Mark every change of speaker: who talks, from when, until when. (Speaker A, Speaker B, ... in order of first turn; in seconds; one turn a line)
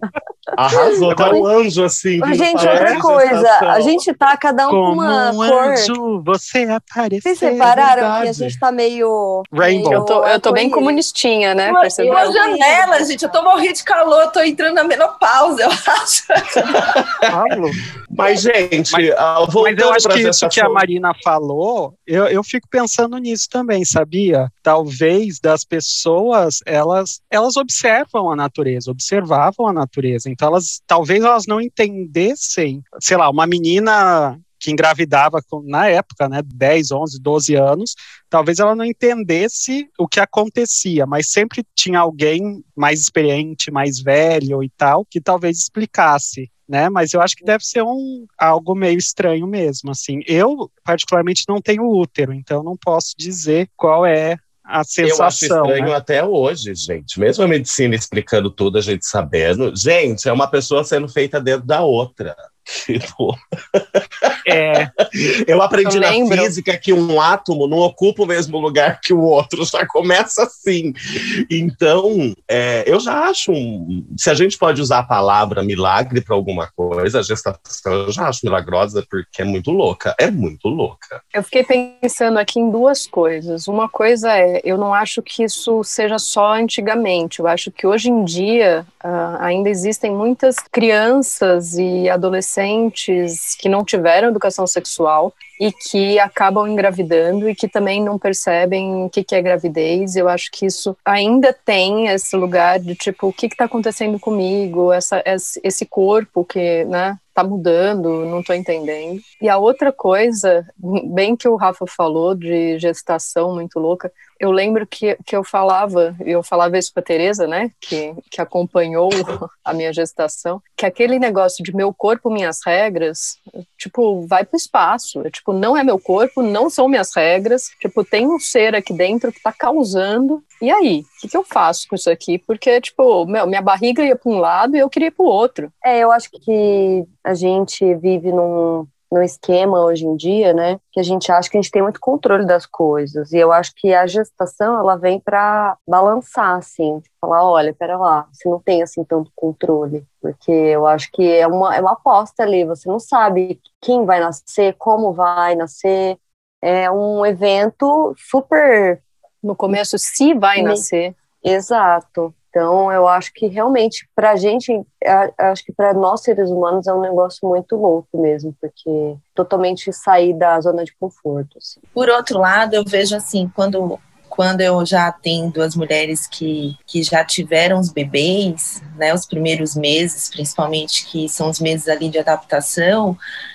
Speaker A: 0.6-3.9
Speaker B: 0.7-1.5
Speaker C: 1.1-1.4
Speaker B: 2.2-6.0
Speaker C: 2.6-3.0
Speaker C: 4.7-8.5
Speaker B: 7.2-11.0
Speaker A: 7.6-8.4
Speaker C: 9.6-10.1
Speaker D: 9.9-12.4
Speaker E: 11.7-16.9
Speaker B: 12.0-13.1
Speaker A: 16.8-17.3
Speaker C: 17.3-17.8
Speaker A: 18.1-20.8
Speaker C: 19.6-55.9
Speaker A: 55.0-71.0
Speaker C: 64.5-64.9
Speaker D: 65.8-66.5
Speaker A: 71.5-81.2
Speaker D: 81.3-135.7
Speaker B: 135.8-159.0
Speaker D: 159.4-161.2
Speaker B: 160.6-160.8
Speaker B: 161.4-171.8
Speaker E: 171.9-183.2